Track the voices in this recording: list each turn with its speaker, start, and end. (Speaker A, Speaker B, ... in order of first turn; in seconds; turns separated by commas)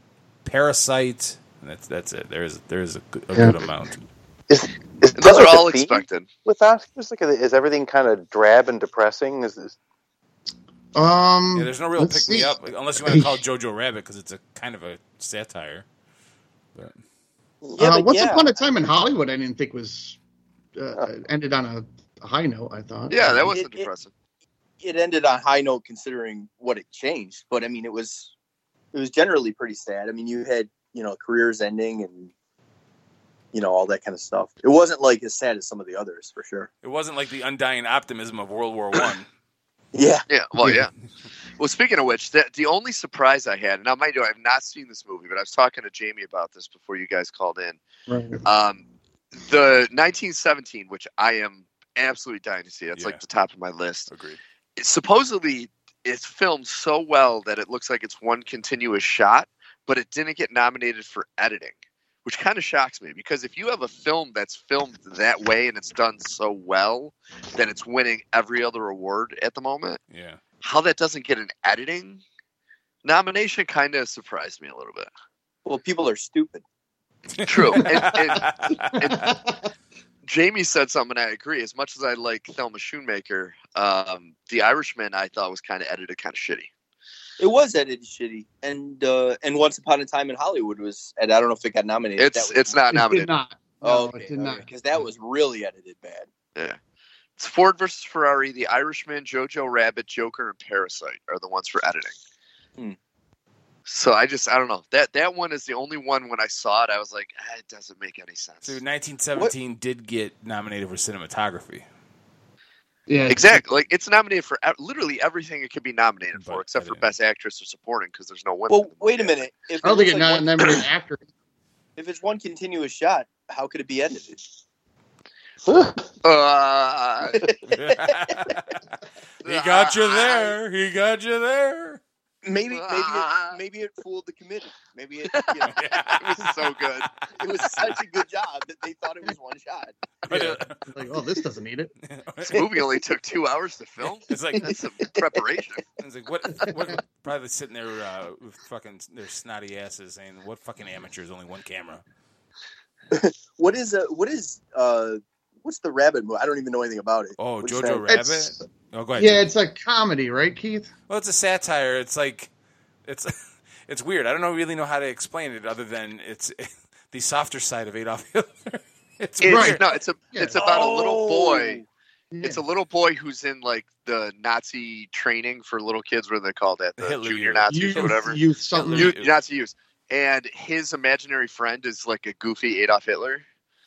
Speaker A: 0.4-4.0, Speaker B: 4.5-9.8, Speaker C: 5.2-6.3, Speaker D: 10.9-13.4, Speaker A: 11.6-15.9, Speaker E: 17.7-18.5, Speaker D: 17.8-20.2, Speaker D: 20.8-23.5, Speaker C: 23.1-24.1, Speaker E: 23.5-23.9, Speaker E: 24.8-28.3, Speaker E: 28.9-32.3, Speaker E: 33.5-36.7, Speaker A: 36.8-39.3, Speaker E: 39.9-40.3, Speaker C: 40.3-40.9, Speaker C: 41.6-47.8, Speaker D: 48.1-48.4, Speaker C: 48.5-48.8, Speaker C: 49.4-54.1, Speaker A: 54.1-54.4, Speaker C: 54.8-70.0, Speaker A: 70.1-70.4, Speaker C: 70.6-72.2, Speaker C: 73.0-75.1, Speaker E: 75.7-76.6, Speaker A: 77.3-79.3, Speaker C: 77.5-79.3, Speaker D: 79.2-79.5, Speaker C: 80.2-86.7, Speaker E: 87.4-92.8, Speaker C: 92.2-93.3, Speaker D: 92.9-95.0, Speaker E: 93.8-96.3, Speaker C: 97.4-102.2, Speaker C: 103.9-108.8, Speaker A: 108.6-111.8, Speaker D: 113.1-113.6, Speaker C: 113.3-119.4, Speaker A: 116.3-117.1, Speaker E: 118.7-120.7, Speaker D: 119.8-121.3, Speaker E: 122.0-124.4, Speaker B: 125.7-126.0, Speaker C: 126.2-127.5, Speaker E: 127.3-128.5, Speaker A: 127.7-128.8, Speaker C: 129.4-130.6, Speaker A: 129.4-132.0, Speaker E: 132.4-136.4, Speaker C: 132.7-133.6, Speaker C: 135.3-137.1, Speaker A: 135.6-136.7, Speaker E: 137.4-139.9, Speaker A: 140.3-140.9, Speaker D: 140.3-141.9, Speaker A: 142.0-142.7, Speaker C: 142.4-145.8, Speaker A: 144.3-144.8, Speaker E: 144.6-145.4, Speaker A: 146.0-152.0, Speaker D: 146.6-146.9, Speaker E: 153.1-158.3, Speaker A: 157.4-159.4, Speaker D: 159.2-160.9, Speaker A: 161.1-162.5, Speaker A: 163.1-163.3, Speaker A: 163.9-169.8, Speaker C: 169.4-171.8, Speaker D: 169.4-170.6, Speaker E: 170.6-171.8, Speaker D: 172.3-172.6, Speaker C: 172.4-178.4, Speaker A: 177.0-179.3, Speaker D: 177.7-179.2, Speaker C: 178.9-183.4